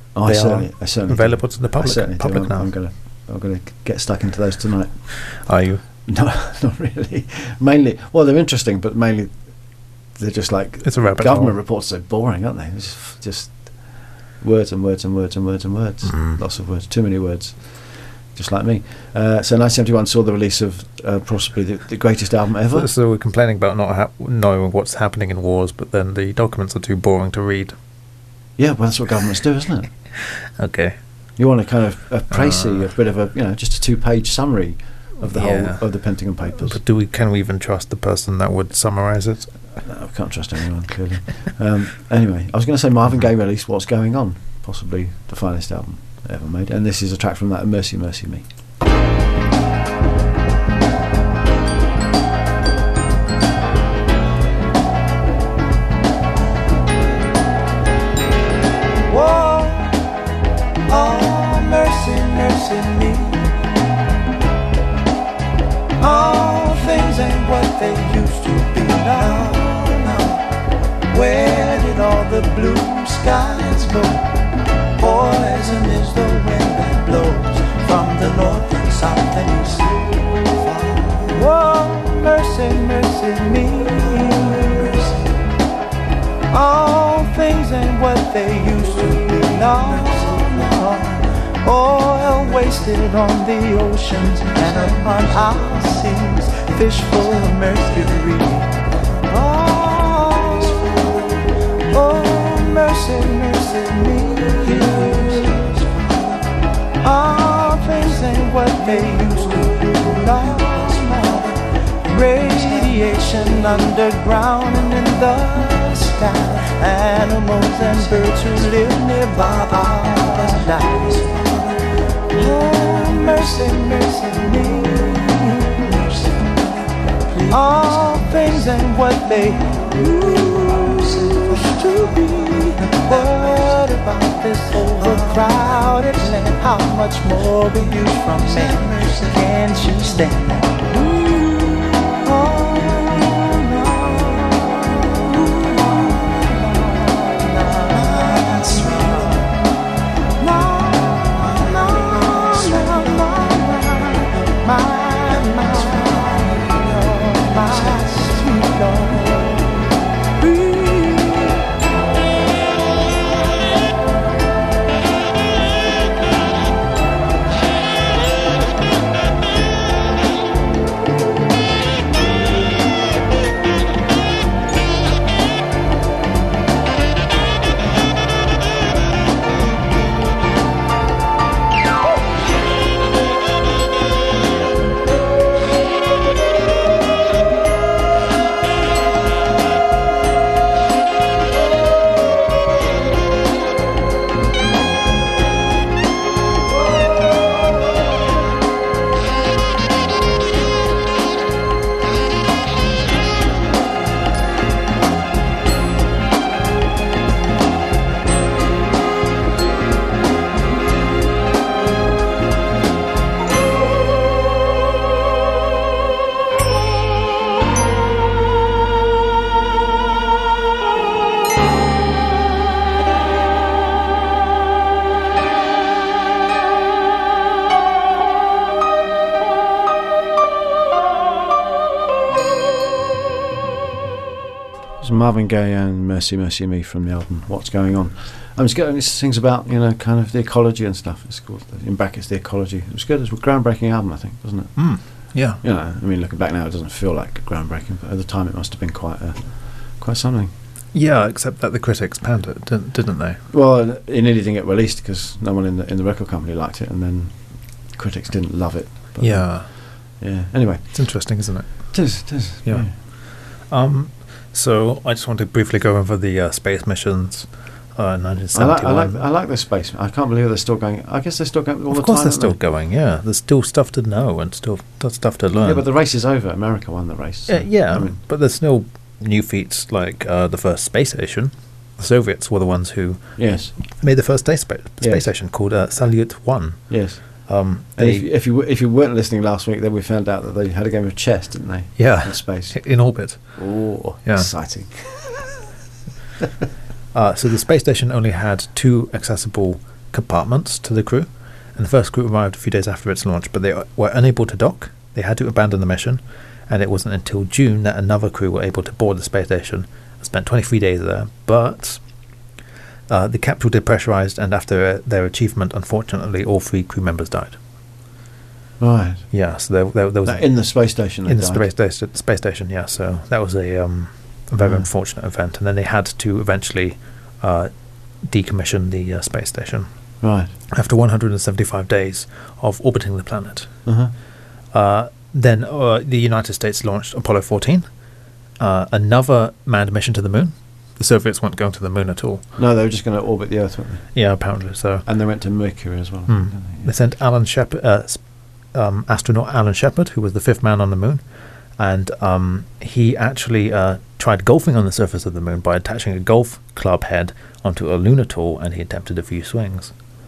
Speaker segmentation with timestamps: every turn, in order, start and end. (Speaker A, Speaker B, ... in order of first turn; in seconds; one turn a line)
Speaker A: 0.1-5.4
Speaker B: 0.2-2.7
Speaker B: 5.2-5.8
Speaker A: 6.0-9.3
Speaker A: 10.1-22.9
Speaker B: 10.8-11.6
Speaker B: 16.1-16.4
Speaker B: 22.7-27.8
Speaker A: 28.6-29.9
Speaker B: 30.3-31.0
Speaker A: 31.4-36.8
Speaker B: 32.3-32.9
Speaker B: 35.2-39.6
Speaker A: 39.8-48.4
Speaker C: 59.1-60.0
Speaker C: 60.9-63.5
Speaker C: 66.0-70.4
Speaker C: 71.1-74.2
Speaker C: 75.0-85.2
Speaker C: 86.5-106.2
Speaker C: 107.0-121.7
Speaker C: 122.3-126.6
Speaker C: 127.3-149.6
Speaker C: 150.4-159.7
Speaker C: 160.4-161.6
Speaker A: 235.0-250.5
Speaker B: 244.8-245.6
Speaker B: 250.9-253.4
Speaker A: 253.5-261.1
Speaker B: 259.2-259.7
Speaker B: 260.9-269.2
Speaker A: 261.9-262.9
Speaker A: 268.5-272.6
Speaker B: 271.9-275.8
Speaker A: 275.6-278.2
Speaker B: 277.5-288.3
Speaker A: 283.4-283.8
Speaker A: 285.0-285.2
Speaker A: 286.9-292.8
Speaker B: 292.0-293.6
Speaker A: 293.5-295.4
Speaker B: 294.2-294.5
Speaker B: 297.1-312.0
Speaker B: 313.1-317.6
Speaker A: 318.8-319.3
Speaker B: 319.3-327.7
Speaker A: 320.2-321.6
Speaker A: 324.6-324.9
Speaker B: 328.2-329.9
Speaker A: 330.2-330.5
Speaker B: 330.7-333.8
Speaker A: 333.9-334.1
Speaker B: 334.7-337.9
Speaker B: 338.6-342.4
Speaker A: 342.6-344.1
Speaker B: 344.1-345.1
Speaker A: 345.1-346.9
Speaker B: 346.3-348.2
Speaker B: 348.7-351.2
Speaker B: 351.8-359.9